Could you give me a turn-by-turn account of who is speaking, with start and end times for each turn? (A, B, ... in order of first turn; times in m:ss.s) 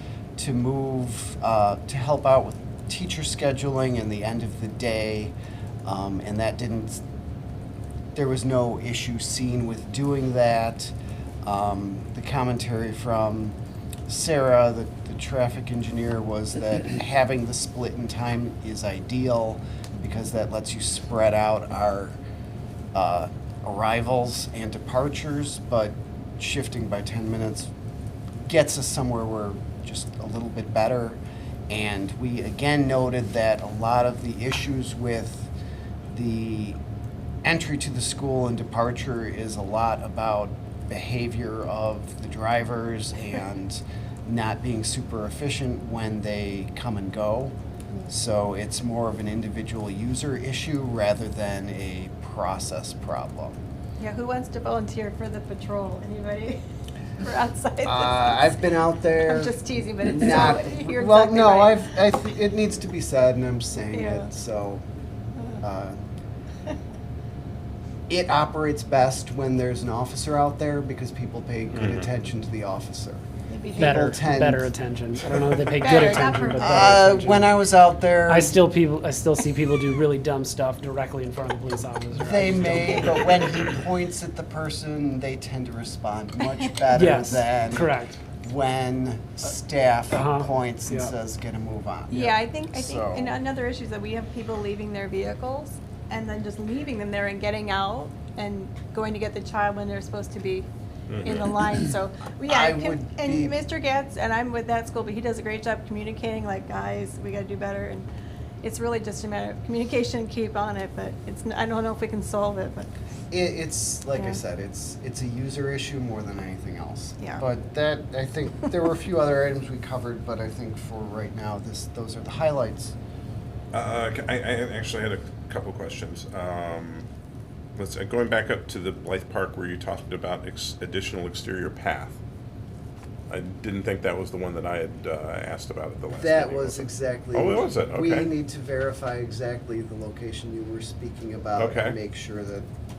0:00.4-0:05.3 A
0:05.8-0:07.0 A
0:08.2-0:10.9 A
0:11.4-0:13.6 A
0:14.1-0:22.2 A
0:22.9-0:27.7 A
0:28.4-0:35.5 A
0:36.1-0:36.8 A
0:37.4-0:47.6 A
0:48.1-0:53.6 A
0:54.0-0:56.6 B
0:57.2-0:58.5 B
0:57.8-1:04.8 A
0:59.2-1:01.9 B
1:03.9-1:04.3 B
1:05.6-1:06.0 A
1:08.1-1:13.2 A
1:11.7-1:12.0 C
1:13.5-1:14.1 B
1:13.8-1:18.6 A
1:13.8-1:17.5 D
1:15.8-1:16.9 B
1:18.3-1:23.3 D
1:22.2-1:33.4 A
1:26.9-1:28.2 D
1:30.1-1:31.1 D
1:32.1-1:40.7 B
1:41.1-1:41.5 C
1:41.2-1:48.1 B
1:42.5-1:43.6 A
1:48.6-1:52.9 B
1:53.3-2:03.0 A
1:57.2-1:57.4 B
2:03.7-2:07.1 C
2:07.8-2:12.2 C
2:13.3-2:18.3 C
2:16.1-2:22.7 A
2:21.6-2:22.0 C